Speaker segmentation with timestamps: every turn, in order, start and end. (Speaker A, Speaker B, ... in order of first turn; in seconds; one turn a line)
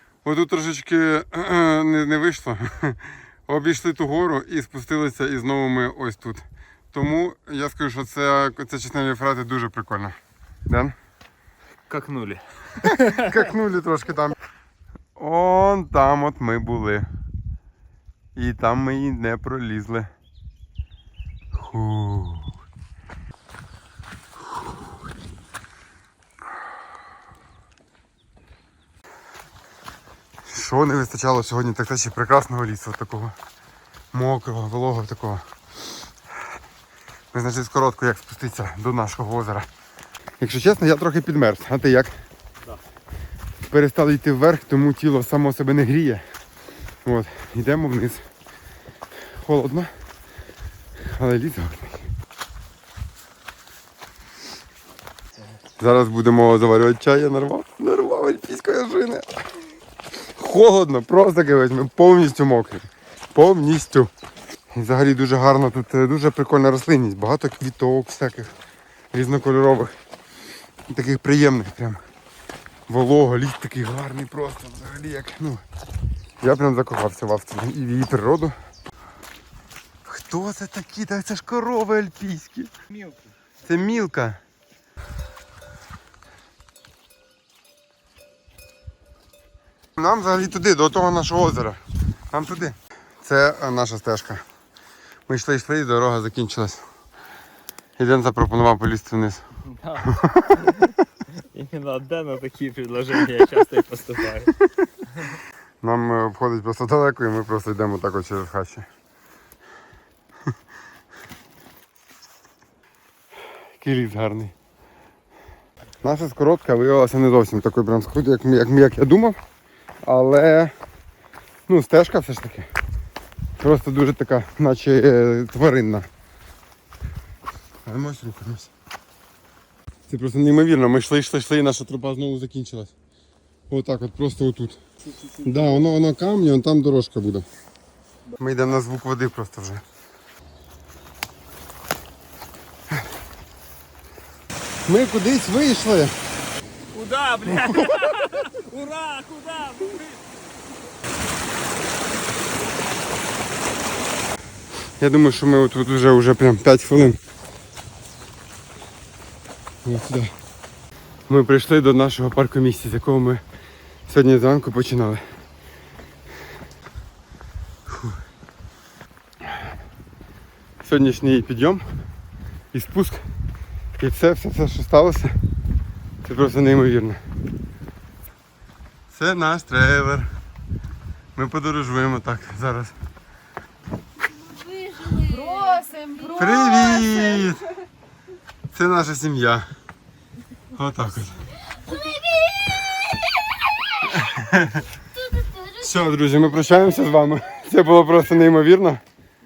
Speaker A: 0.2-10.1
Speaker A: 10.7-10.9
Speaker B: 11.9-13.2
Speaker A: 12.8-14.4
Speaker A: 15.2-17.1
Speaker A: 18.3-20.1
Speaker A: 21.5-22.6
Speaker A: 30.4-33.3
Speaker A: 34.1-35.5
Speaker A: 37.3-39.7
Speaker A: 40.4-42.1
Speaker A: 43.6-46.2
Speaker A: 47.0-48.2
Speaker A: 49.2-49.9
Speaker A: 51.0-52.1
Speaker A: 55.8-59.4
Speaker A: 60.3-64.1
Speaker A: 64.7-68.5
Speaker A: 69.1-69.9
Speaker A: 70.9-72.0
Speaker A: 72.9-75.6
Speaker A: 76.4-78.5
Speaker A: 80.0-82.7
Speaker A: 83.6-84.4
Speaker A: 90.0-91.8
Speaker A: 92.3-94.4
Speaker A: 95.3-96.8
Speaker A: 98.0-99.4
Speaker B: 99.7-104.5
Speaker A: 100.0-100.7
Speaker A: 105.8-108.9
Speaker A: 113.8-114.5
Speaker A: 116.0-119.4
Speaker A: 120.0-120.7
Speaker A: 121.7-122.7
Speaker A: 123.6-126.0
Speaker A: 127.8-128.7
Speaker A: 130.1-132.9
Speaker A: 133.7-134.8
Speaker B: 135.3-135.7
Speaker A: 135.4-137.4
Speaker A: 138.4-139.8
Speaker A: 144.8-146.1
Speaker B: 146.9-150.2
Speaker A: 155.0-157.2
Speaker A: 159.8-160.3
Speaker A: 161.3-163.4
Speaker A: 164.1-165.2
Speaker A: 170.8-171.8
Speaker A: 172.7-173.2
Speaker A: 174.0-175.3
Speaker A: 176.2-177.2
Speaker A: 179.1-180.3
Speaker A: 181.3-182.9
Speaker A: 186.2-187.7
Speaker A: 188.7-189.7
Speaker A: 190.7-191.6
Speaker A: 194.0-194.8
Speaker A: 195.6-199.0